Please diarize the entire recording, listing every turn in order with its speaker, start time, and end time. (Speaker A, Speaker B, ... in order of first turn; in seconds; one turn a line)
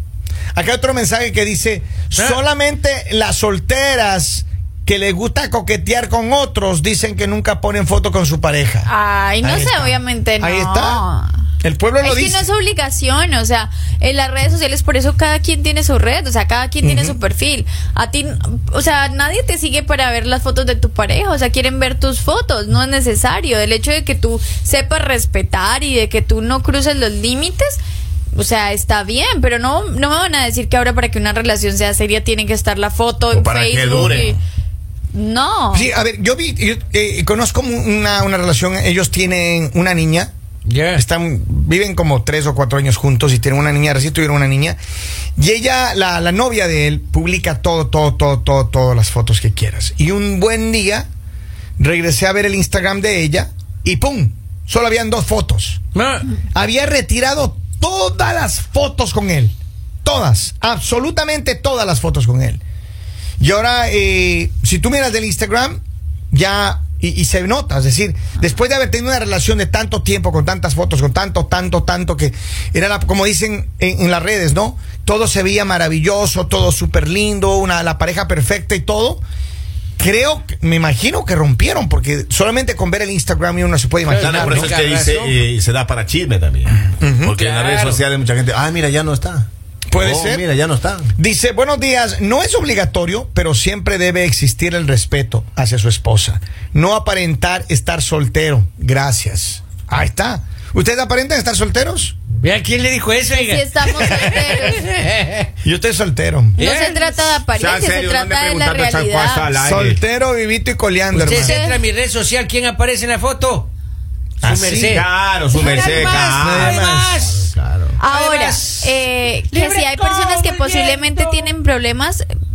Speaker A: 0.6-8.9
Speaker B: 2.1-2.4
Speaker C: 8.9-11.3
Speaker A: 9.4-11.0
Speaker A: 11.6-12.5
Speaker C: 12.0-27.8
Speaker A: 16.8-17.2
Speaker C: 28.4-34.4
Speaker D: 33.3-34.4
Speaker A: 34.0-34.2
Speaker C: 35.1-35.9
Speaker A: 35.7-40.3
Speaker B: 40.7-41.0
Speaker A: 40.9-44.8
Speaker A: 45.4-51.1
Speaker A: 51.8-55.8
Speaker B: 55.9-56.3
Speaker A: 56.5-62.6
Speaker A: 63.4-65.8
Speaker A: 66.3-79.2
Speaker A: 80.0-84.7
Speaker B: 84.0-85.4
Speaker D: 84.2-89.5
Speaker A: 87.0-87.3
Speaker B: 87.4-88.0
Speaker A: 89.9-90.5
Speaker D: 90.0-91.1
Speaker A: 91.2-102.2
Speaker B: 102.4-105.5
Speaker C: 103.3-104.8
Speaker A: 105.6-106.6
Speaker C: 106.6-109.5
Speaker B: 106.6-107.4
Speaker D: 107.5-110.0
Speaker A: 109.6-111.6
Speaker B: 111.1-113.7
Speaker C: 111.3-111.8
Speaker A: 114.4-115.0
Speaker B: 114.4-121.5
Speaker D: 114.9-118.0
Speaker A: 116.4-117.3
Speaker C: 118.0-122.3